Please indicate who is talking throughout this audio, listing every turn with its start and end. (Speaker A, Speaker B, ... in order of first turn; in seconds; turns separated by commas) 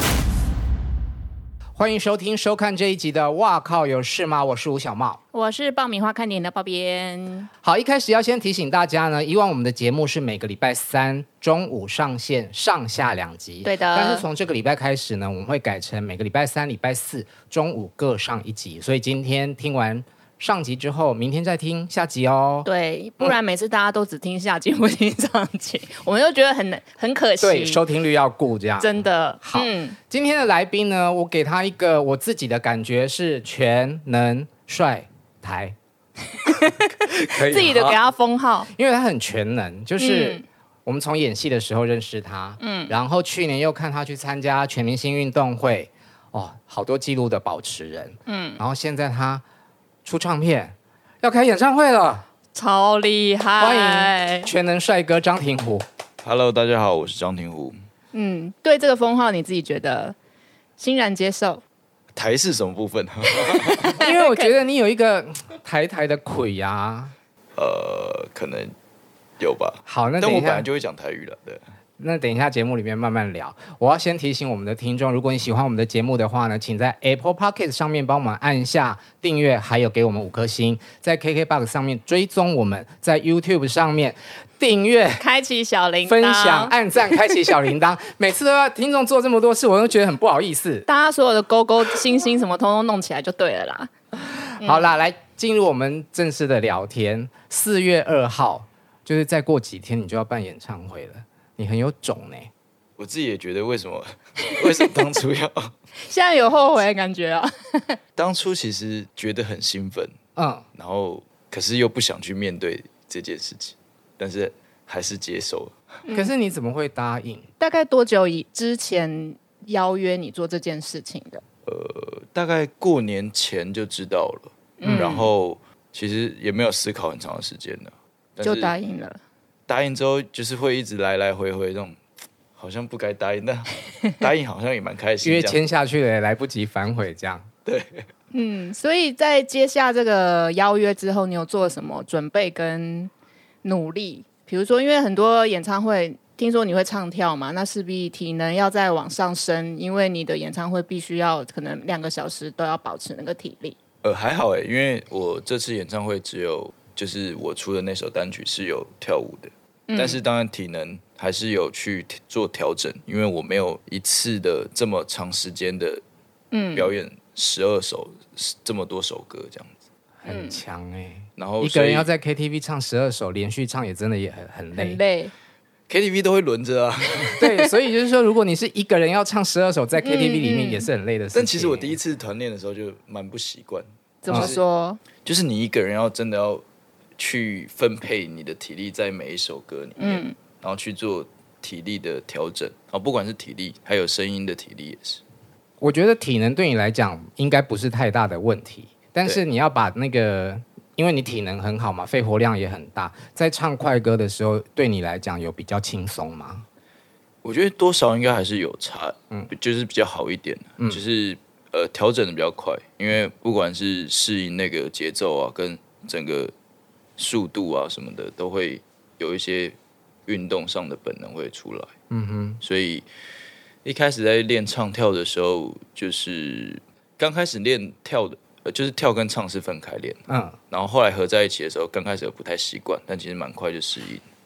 Speaker A: 1.8-5.2, Speaker B: 5.3-7.5, Speaker A: 7.6-22.7, Speaker B: 13.6-14.2, Speaker B: 22.6-27.8, Speaker A: 27.4-35.8, Speaker B: 28.8-30.0, Speaker B: 36.4-38.7, Speaker A: 37.0-38.0, Speaker A: 38.7-49.4, Speaker B: 40.0-40.4, Speaker B: 42.6-42.9, Speaker B: 48.3-48.6, Speaker A: 50.0-52.2, Speaker B: 52.5-54.5, Speaker A: 53.6-55.9, Speaker C: 56.2-57.8, Speaker B: 58.1-60.1, Speaker B: 60.8-61.6, Speaker C: 62.1-63.9, Speaker B: 63.7-64.5, Speaker A: 64.0-67.1, Speaker C: 67.5-68.7, Speaker C: 69.4-71.6, Speaker A: 69.8-70.7, Speaker A: 72.0-85.2, Speaker B: 85.2-87.2, Speaker A: 86.0-90.9, Speaker B: 90.9-93.9, Speaker A: 94.6-102.5, Speaker B: 94.6-94.9, Speaker C: 103.0-105.7, Speaker B: 106.1-108.0, Speaker C: 108.2-110.1, Speaker A: 110.3-110.6, Speaker C: 110.7-115.8, Speaker A: 116.1-117.5, Speaker B: 117.6-121.4, Speaker C: 121.7-128.7, Speaker B: 124.8-125.3, Speaker B: 128.4-129.2, Speaker C: 129.7-132.0, Speaker C: 132.5-135.6, Speaker A: 135.2-137.5, Speaker C: 137.7-138.1, Speaker B: 138.3-143.1, Speaker B: 143.6-153.8, Speaker C: 154.0-166.0, Speaker B: 159.9-160.2, Speaker B: 166.5-166.9, Speaker C: 166.7-169.7, Speaker A: 170.2-175.0, Speaker B: 170.2-170.6, Speaker C: 171.4-172.1, Speaker B: 174.7-175.3, Speaker C: 175.9-177.4, Speaker A: 177.4-182.0, Speaker B: 177.4-177.7, Speaker B: 180.0-180.9, Speaker C: 181.3-184.6, Speaker B: 184.2-185.0, Speaker A: 184.3-184.6, Speaker C: 185.2-186.6, Speaker C: 187.2-195.2, Speaker B: 190.0-190.3, Speaker A: 195.8-206.7, Speaker C: 207.4-216.5, Speaker C: 217.2-219.8, Speaker C: 220.3-221.9, Speaker A: 222.1-222.6, Speaker C: 222.6-223.0, Speaker C: 223.8-234.2, Speaker A: 230.3-230.6